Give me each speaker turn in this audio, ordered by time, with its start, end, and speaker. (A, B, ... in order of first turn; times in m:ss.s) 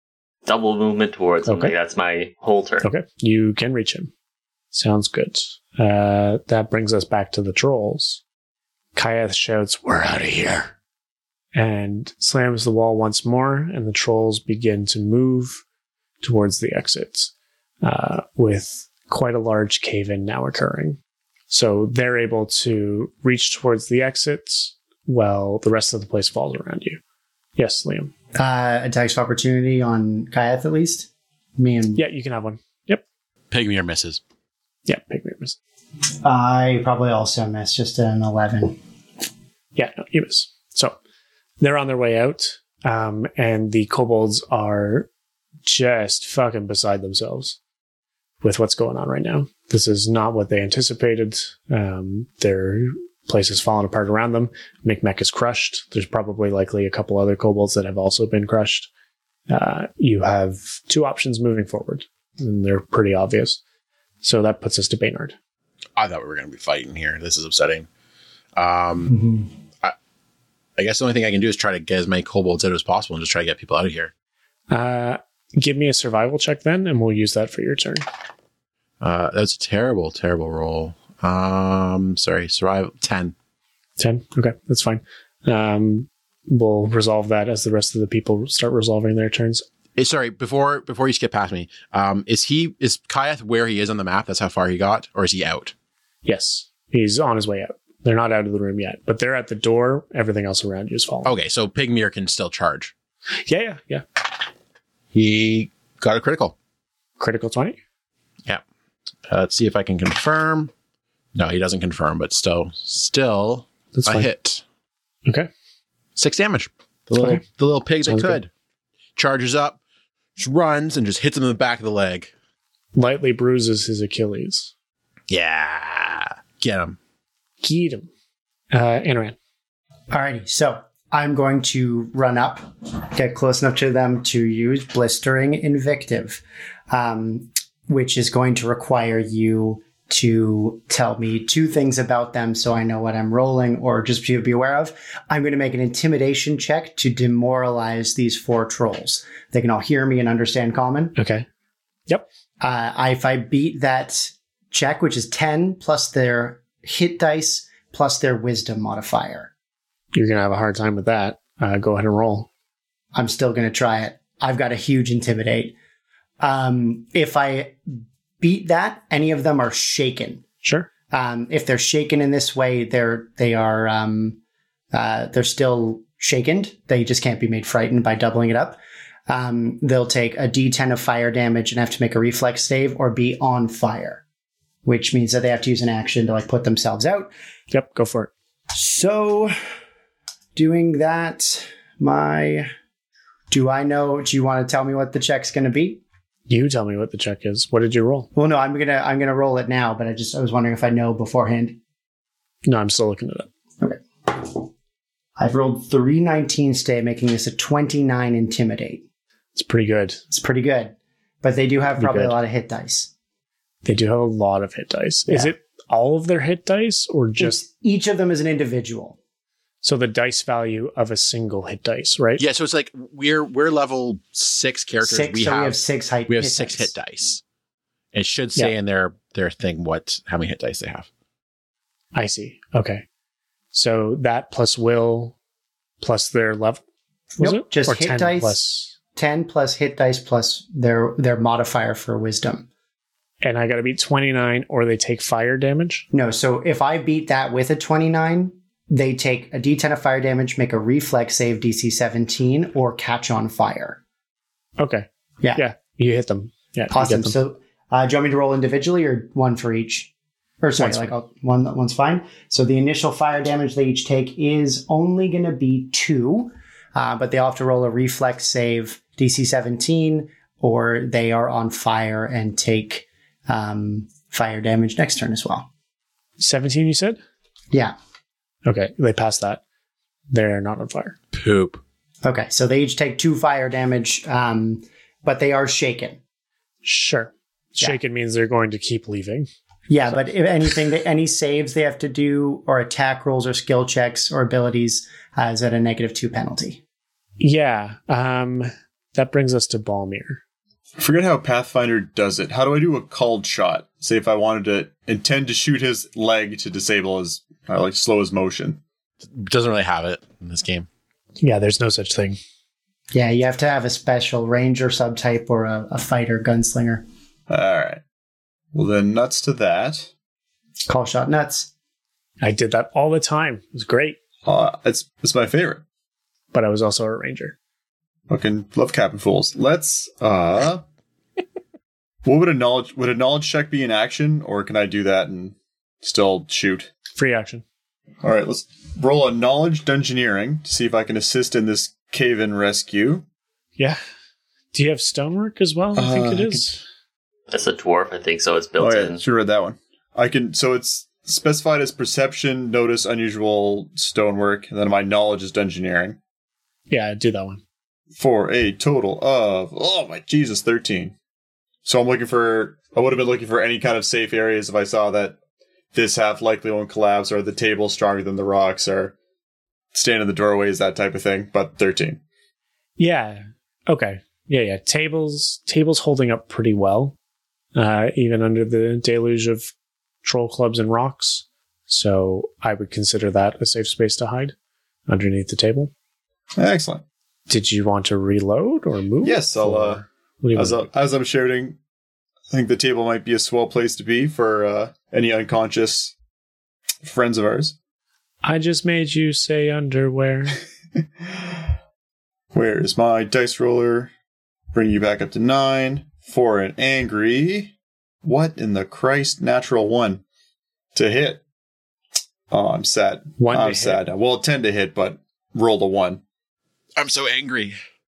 0:00.4-0:02.8 A
0:01.4-0:01.7 B
0:02.8-0:04.1 B
0:04.7-0:08.2 B
0:08.9-0:10.7 B
0:11.5-0:15.6 B
0:16.2-0:17.3 B
0:17.8-0:21.0 B
0:21.5-0:27.0 B
0:27.6-0:28.1 B
0:28.3-0:32.0 C
0:32.0-0:33.0 B
0:33.5-0:34.2 D
0:34.8-0:35.6 B
0:36.2-0:38.8 C
0:39.7-0:41.0 B
0:41.6-0:45.1 B
0:45.6-0:47.6 B
0:48.4-0:58.9 B
0:59.5-1:03.6 B
1:04.2-1:05.3 B
1:06.0-1:07.9 D
1:08.6-1:09.2 D
1:09.1-1:09.4 C
1:10.8-1:14.1 D
1:14.7-1:18.0 B
1:19.0-1:23.3 D
1:24.0-1:29.6 B
1:30.0-1:35.7 D
1:36.2-1:41.3 B
1:41.2-1:42.9 D
1:43.4-1:44.0 B
1:45.1-1:46.5 D
1:47.2-1:47.8 B
1:49.3-1:50.7 D
1:51.3-1:54.6 D
1:53.9-1:54.3 B
1:56.2-1:58.5 D
1:57.2-1:57.4 B
1:58.0-1:58.4 B
1:59.2-1:59.8 D
2:00.4-2:02.3 D
2:02.9-2:04.7 B
2:05.3-2:07.0 D
2:07.6-2:08.1 B
2:08.7-2:09.4 B
2:10.1-2:31.1 C
2:31.2-2:31.4 B
2:32.6-2:39.5 C
2:40.1-2:42.5 B
2:43.1-2:45.7 C
2:46.4-2:50.4 C
2:50.6-2:50.9 B
2:51.1-2:54.4 C
2:54.9-3:04.2 C
3:04.8-3:07.3 C
3:07.7-3:08.3 B
3:08.7-3:09.5 C
3:10.5-3:12.7 C
3:13.5-3:16.0 C
3:16.5-3:18.3 B
3:18.3-3:21.8 C
3:22.6-3:23.5 B
3:23.8-3:24.7 C
3:25.4-3:29.0 C
3:29.5-3:30.2 B
3:30.3-3:33.1 C
3:32.0-3:32.4 B
3:33.8-3:37.6 B
3:35.3-3:35.5 C
3:37.4-3:39.2 C
3:39.8-3:42.4 B
3:42.4-3:47.4 D
3:45.0-3:46.9 C
3:48.1-3:51.1 D
3:52.1-3:53.0 B
3:53.7-3:55.4 B
3:56.0-3:56.8 B
3:57.4-3:58.9 B
3:57.4-3:58.6 C
3:59.1-4:02.7 C
4:03.4-4:06.0 B
4:06.1-4:14.0 C
4:14.8-4:17.3 B
4:16.9-4:35.7 C
4:20.8-4:21.1 B
4:36.4-4:37.2 B
4:37.7-4:38.0 C
4:38.6-4:39.6 B
4:40.3-4:41.2 B
4:41.3-4:41.8 D
4:42.2-4:46.2 C
4:46.8-4:49.5 B
4:49.9-4:56.8 C
4:57.4-5:00.4 B
5:01.0-5:08.8 E
5:09.2-5:10.9 D
5:11.4-5:12.4 B
5:13.1-5:17.0 C
5:17.5-5:18.0 E
5:18.7-5:20.1 E
5:20.9-5:21.7 C
5:22.4-5:24.2 B
5:24.4-5:25.8 E
5:26.5-5:27.6 B
5:28.3-5:30.8 E
5:32.2-5:36.9 E
5:37.2-5:37.6 B
5:38.2-5:43.2 E
5:44.7-5:46.8 B
5:45.9-5:46.6 E
5:47.5-5:49.2 A
5:48.8-5:56.2 E
5:56.9-5:57.6 B
5:58.1-6:01.1 E
6:01.8-6:05.4 E
6:05.9-6:09.1 E
6:09.9-6:12.2 E
6:13.0-6:17.2 B
6:17.7-6:19.7 B
6:20.2-6:24.5 B
6:25.1-6:25.9 B
6:26.6-6:27.0 E
6:27.5-6:30.9 B
6:29.2-6:30.0 E
6:30.6-6:31.8 E
6:32.5-6:36.1 E
6:37.0-6:37.7 E
6:38.4-6:40.6 B
6:42.5-6:44.1 E
6:44.7-6:50.2 E
6:50.9-6:51.4 E
6:52.5-6:56.2 E
6:53.4-6:54.0 B
6:57.0-6:57.8 D